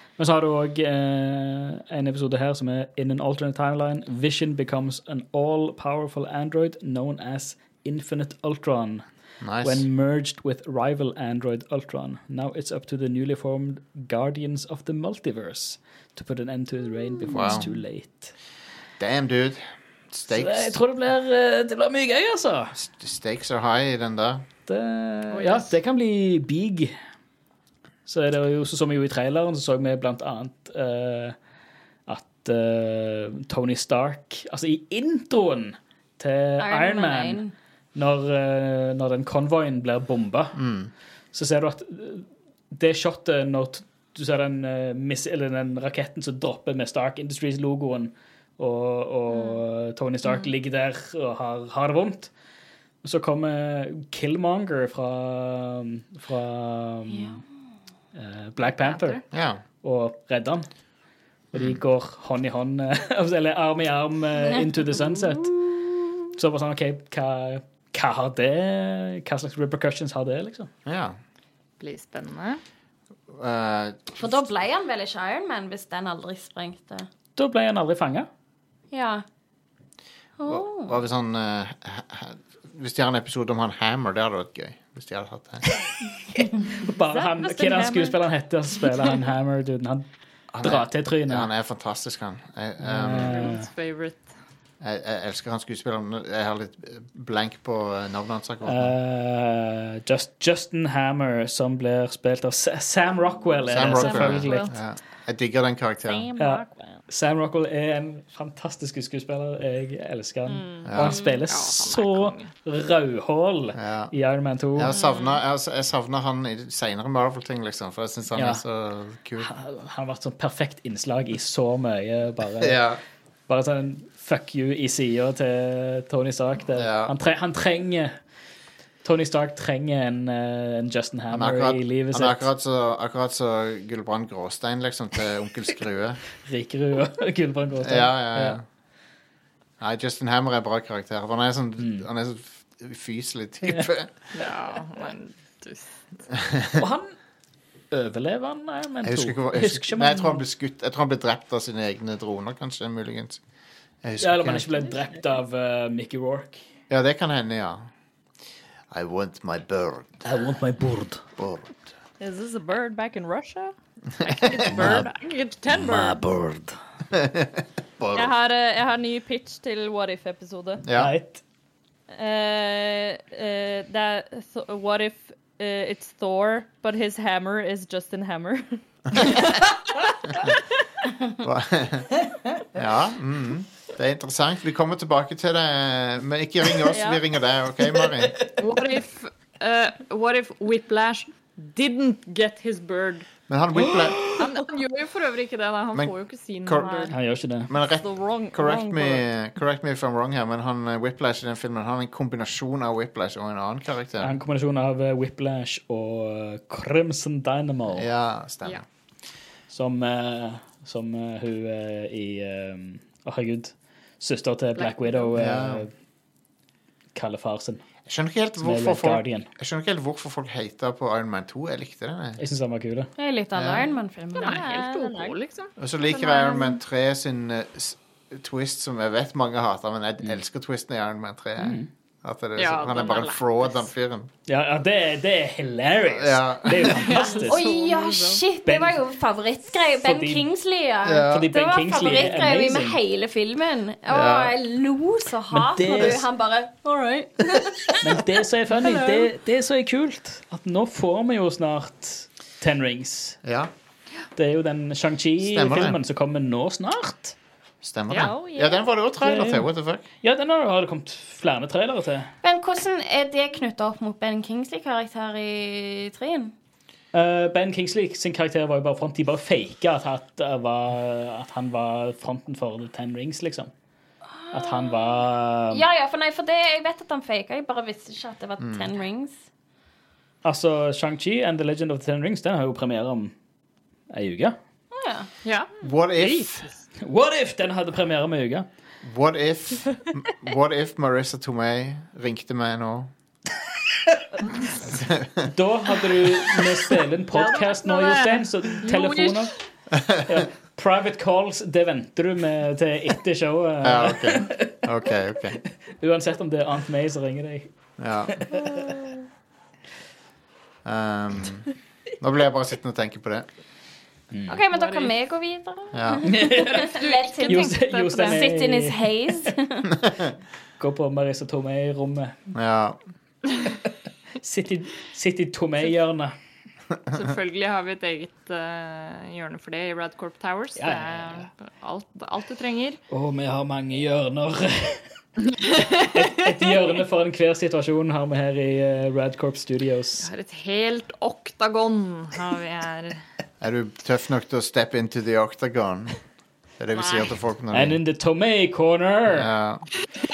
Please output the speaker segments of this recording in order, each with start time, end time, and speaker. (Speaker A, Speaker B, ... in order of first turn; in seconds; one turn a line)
Speaker A: 0.2-18.3
Speaker B: 9.4-9.9
Speaker B: 17.3-17.7
Speaker B: 19.0-20.8
Speaker A: 20.3-22.8
Speaker B: 22.8-24.4
Speaker A: 24.7-26.9
Speaker C: 25.3-25.7
Speaker A: 28.1-31.4
Speaker A: 32.1-37.4
Speaker D: 36.6-37.5
Speaker A: 38.0-40.6
Speaker B: 40.6-40.9
Speaker A: 41.3-52.3
Speaker D: 50.2-50.5
Speaker A: 53.0-57.4
Speaker D: 57.1-57.4
Speaker A: 58.1-59.3
Speaker C: 58.7-59.2
Speaker B: 59.3-59.6
Speaker A: 59.8-60.7
Speaker B: 61.5-61.8
Speaker A: 61.5-65.6
Speaker A: 66.3-70.7
Speaker B: 70.9-71.2
Speaker C: 71.8-72.6
Speaker B: 73.3-74.5
Speaker D: 74.2-77.1
Speaker A: 77.4-78.3
Speaker D: 78.9-79.2
Speaker D: 80.4-81.0
Speaker B: 80.5-85.8
Speaker A: 86.4-90.1
Speaker E: 86.9-88.2
Speaker B: 90.5-93.5
Speaker A: 90.6-91.5
Speaker A: 92.8-93.7
Speaker C: 93.2-94.3
Speaker B: 94.8-99.0
Speaker A: 98.7-104.7
Speaker B: 103.7-106.3
Speaker C: 104.0-104.7
Speaker D: 106.1-106.4
Speaker E: 106.1-107.0
Speaker A: 106.4-115.0
Speaker E: 110.5-111.0
Speaker B: 110.9-111.2
Speaker D: 111.0-111.4
Speaker C: 111.5-112.5
Speaker B: 113.8-114.1
Speaker B: 114.8-119.5
Speaker E: 114.9-115.3
Speaker A: 118.3-118.6
Speaker A: 119.4-122.9
Speaker B: 122.6-123.0
Speaker A: 123.5-128.2
Speaker B: 126.8-127.1
Speaker A: 129.0-132.5
Speaker B: 131.3-136.2
Speaker A: 136.4-138.6
Speaker B: 137.8-138.6
Speaker B: 139.8-144.1
Speaker A: 141.8-142.1
Speaker C: 144.3-146.0
Speaker B: 146.5-146.8
Speaker A: 146.8-147.2
Speaker A: 147.9-150.4
Speaker B: 149.0-153.4
Speaker B: 154.0-154.9
Speaker A: 154.2-156.6
Speaker B: 156.9-157.9
Speaker B: 158.9-160.4
Speaker A: 160.2-161.3
Speaker B: 161.4-161.9
Speaker E: 162.2-163.7
Speaker C: 164.2-166.2
Speaker B: 164.7-165.0
Speaker A: 164.8-165.0
Speaker A: 165.7-166.8
Speaker B: 167.1-168.3
Speaker E: 168.1-170.8
Speaker B: 170.8-171.1
Speaker A: 170.9-171.4
Speaker E: 172.1-179.7
Speaker B: 181.4-182.2
Speaker B: 182.7-188.4
Speaker E: 186.9-187.2
Speaker A: 188.0-188.5
Speaker C: 188.6-193.3
Speaker B: 193.5-194.3
Speaker A: 193.9-194.4
Speaker C: 194.3-197.2
Speaker B: 196.7-196.9
Speaker E: 196.8-197.1
Speaker A: 197.1-197.7
Speaker B: 197.7-204.4
Speaker E: 197.8-199.2
Speaker A: 204.2-208.1
Speaker B: 207.9-208.8
Speaker A: 209.7-215.9
Speaker D: 214.8-215.2
Speaker E: 214.8-215.3
Speaker B: 215.3-215.9
Speaker A: 217.2-217.8
Speaker B: 218.1-222.4
Speaker A: 218.6-219.5
Speaker A: 222.4-223.1
Speaker D: 223.2-224.6
Speaker B: 223.5-223.9
Speaker E: 224.4-225.3
Speaker C: 224.4-225.7
Speaker B: 225.8-234.3
Speaker D: 226.1-226.8
Speaker A: 231.6-231.9
Speaker C: 232.6-233.9
Speaker A: 234.5-237.6
Speaker B: 236.1-237.2
Speaker C: 236.9-238.4
Speaker D: 237.4-248.2
Speaker A: 238.7-239.0
Speaker A: 239.9-240.5
Speaker B: 241.1-241.5
Speaker A: 241.3-243.0
Speaker B: 244.1-244.6
Speaker A: 245.5-246.3
Speaker A: 248.0-253.4
Speaker D: 248.8-249.3
Speaker B: 253.4-253.7
Speaker A: 254.4-257.4
Speaker B: 255.4-256.0
Speaker B: 257.8-260.1
Speaker E: 258.2-258.9
Speaker A: 259.2-262.3
Speaker D: 262.4-266.5
Speaker A: 267.1-273.7
Speaker D: 274.3-279.4
Speaker A: 274.5-275.8
Speaker B: 278.6-278.9
Speaker A: 280.4-283.3
Speaker A: 284.1-284.6
Speaker D: 284.9-285.3
Speaker C: 285.4-285.7
Speaker B: 285.8-286.7
Speaker A: 286.2-288.7
Speaker B: 289.0-293.1
Speaker B: 294.8-295.5
Speaker A: 295.5-304.9
Speaker E: 297.6-298.2
Speaker C: 298.8-299.4
Speaker E: 298.8-299.2
Speaker B: 299.9-300.4
Speaker B: 303.8-305.6
Speaker A: 305.9-307.7
Speaker B: 308.0-308.4
Speaker A: 308.3-308.7
Speaker B: 310.9-313.5
Speaker A: 314.3-314.6
Speaker D: 314.5-319.9
Speaker C: 314.7-315.1
Speaker B: 315.9-316.3
Speaker A: 316.2-319.1
Speaker C: 316.6-318.5
Speaker B: 320.0-320.3
Speaker A: 320.8-322.4
Speaker B: 322.5-323.0
Speaker A: 324.4-326.3
Speaker C: 327.1-333.0
Speaker A: 330.8-331.5
Speaker A: 333.1-340.3
Speaker C: 340.2-343.2
Speaker B: 343.6-348.0
Speaker C: 346.9-347.3
Speaker A: 347.7-349.5
Speaker B: 349.3-349.9